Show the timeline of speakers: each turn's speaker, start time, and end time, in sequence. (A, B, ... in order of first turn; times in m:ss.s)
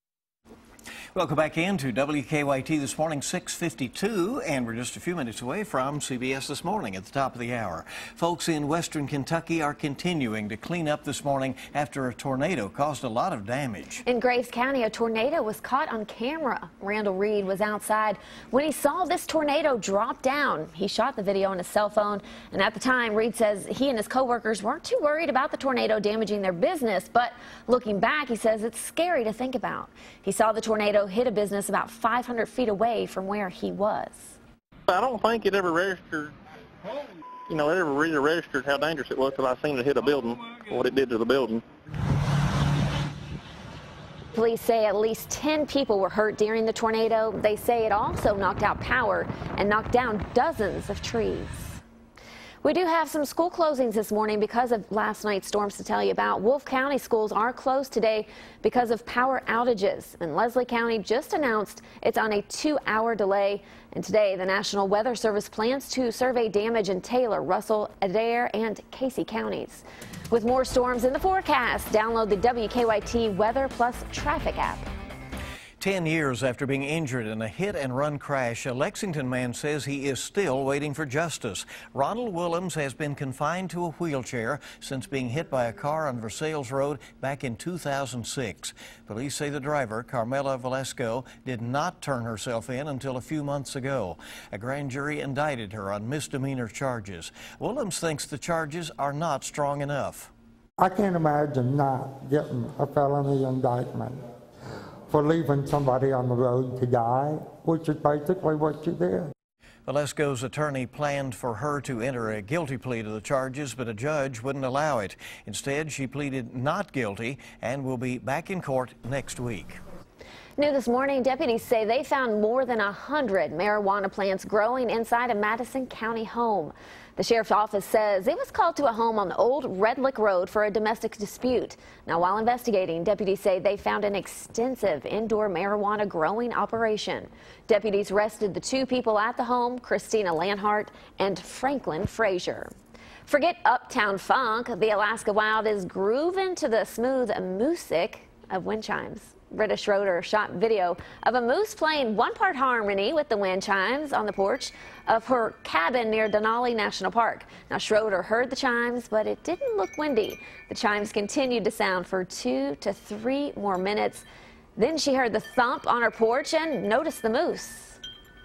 0:01.1-0:14.0 A
0:14.0-0:34.4 B
0:34.9-0:36.3 C
0:37.5-0:41.6 C
0:44.3-0:51.8 B
0:52.6-1:14.9 B
1:15.8-1:40.3 A
1:40.8-1:44.2 D
1:45.1-1:49.3 D
1:49.8-1:59.8 A
2:00.6-2:22.7 B
2:23.2-2:48.0 B